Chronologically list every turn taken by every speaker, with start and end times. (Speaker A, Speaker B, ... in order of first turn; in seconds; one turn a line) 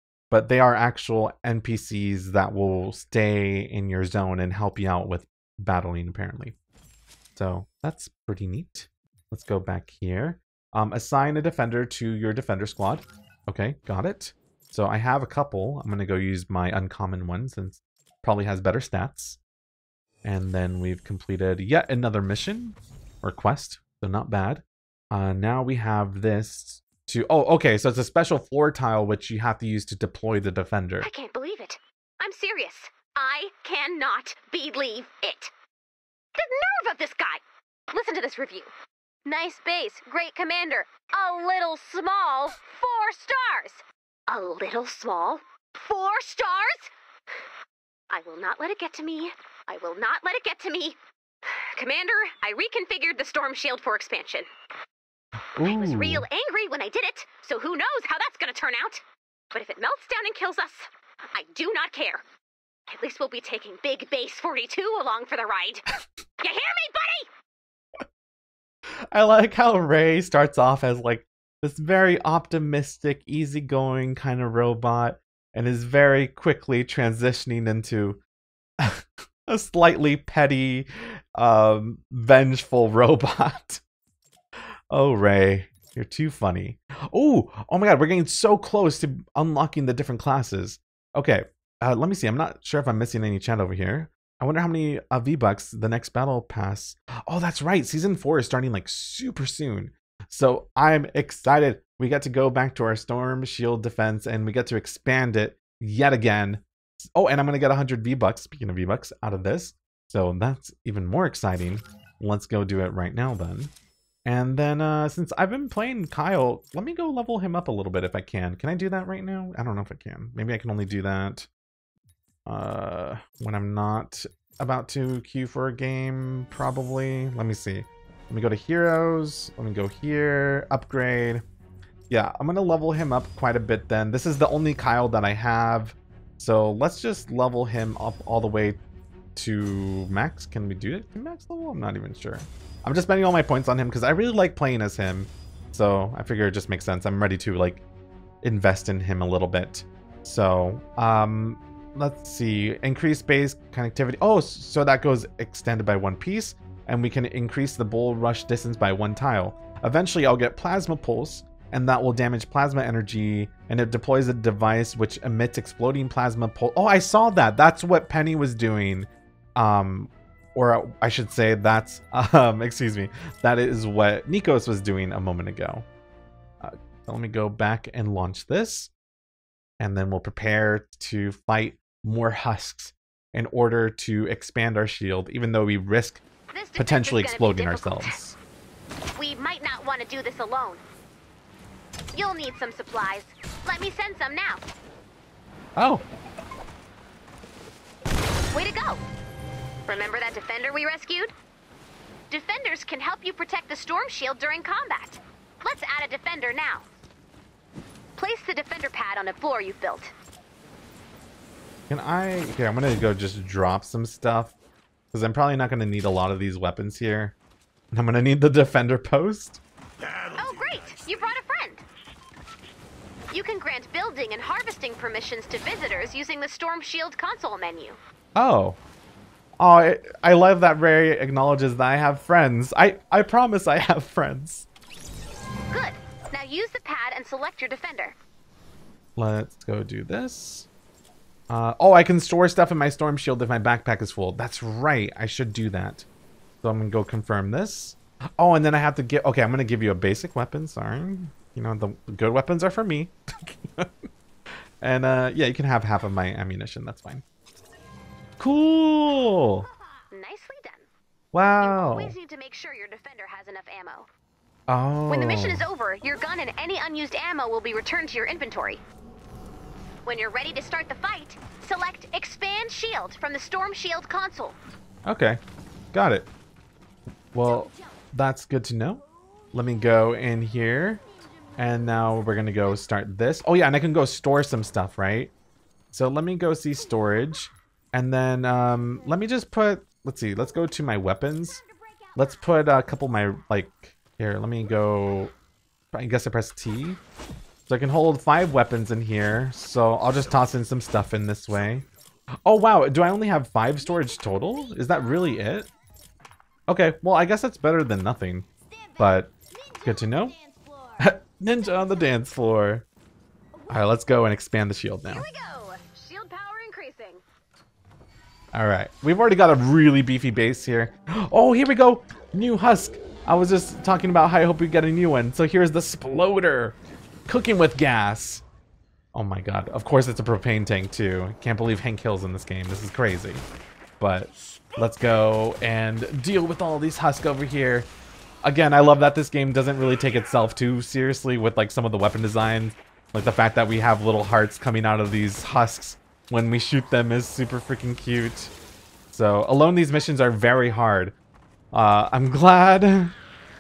Speaker A: 0.3-6.5
Speaker A: 7.3-19.4
Speaker A: 20.2-31.1
Speaker B: 31.0-35.5
Speaker B: 36.4-38.7
Speaker B: 39.2-46.9
Speaker B: 48.1-54.5
Speaker A: 55.5-56.2
Speaker B: 55.6-62.2
Speaker B: 62.9-65.9
Speaker B: 66.4-67.3
Speaker A: 69.1-78.2
Speaker A: 78.8-83.8
Speaker A: 84.9-113.7
Speaker A: 114.2-121.5
Speaker A: 122.5-131.4
Speaker A: 132.1-138.8
Speaker A: 139.3-147.8
Speaker A: 148.4-175.8
Speaker A: 176.6-178.9
Speaker A: 179.8-186.2
Speaker B: 186.5-188.2
Speaker A: 186.8-188.3
Speaker B: 189.2-190.8
Speaker B: 192.1-194.6
Speaker A: 195.8-196.0
Speaker B: 198.5-199.0
Speaker B: 199.8-201.3
Speaker B: 202.3-206.8
Speaker B: 208.2-210.1
Speaker A: 211.9-214.5
Speaker A: 215.1-217.3
Speaker A: 217.9-219.6
Speaker B: 220.3-221.8
Speaker B: 223.3-228.0
Speaker A: 228.3-228.8
Speaker A: 229.6-234.7
Speaker B: 235.7-238.2
Speaker A: 239.2-240.7
Speaker A: 241.5-246.0
Speaker A: 246.6-253.9
Speaker A: 254.8-257.2
Speaker A: 258.4-259.7
Speaker B: 260.1-260.9
Speaker A: 261.3-262.1
Speaker B: 261.6-264.1
Speaker A: 264.7-265.6
Speaker B: 265.1-268.8
Speaker B: 270.0-274.6
Speaker A: 275.1-275.4
Speaker A: 275.9-276.3
Speaker A: 277.3-285.3
Speaker A: 285.9-291.6
Speaker A: 292.1-295.3
Speaker A: 295.9-297.0
Speaker A: 297.7-301.9
Speaker A: 302.4-305.7
Speaker A: 306.7-308.5
Speaker A: 309.0-310.4
Speaker A: 311.0-312.8
Speaker A: 313.7-315.2
Speaker B: 315.1-317.2
Speaker A: 318.5-326.8
Speaker A: 327.3-328.4
Speaker A: 329.1-333.4
Speaker A: 334.0-337.9
Speaker A: 338.4-348.5
Speaker A: 349.1-351.1
Speaker A: 351.7-353.1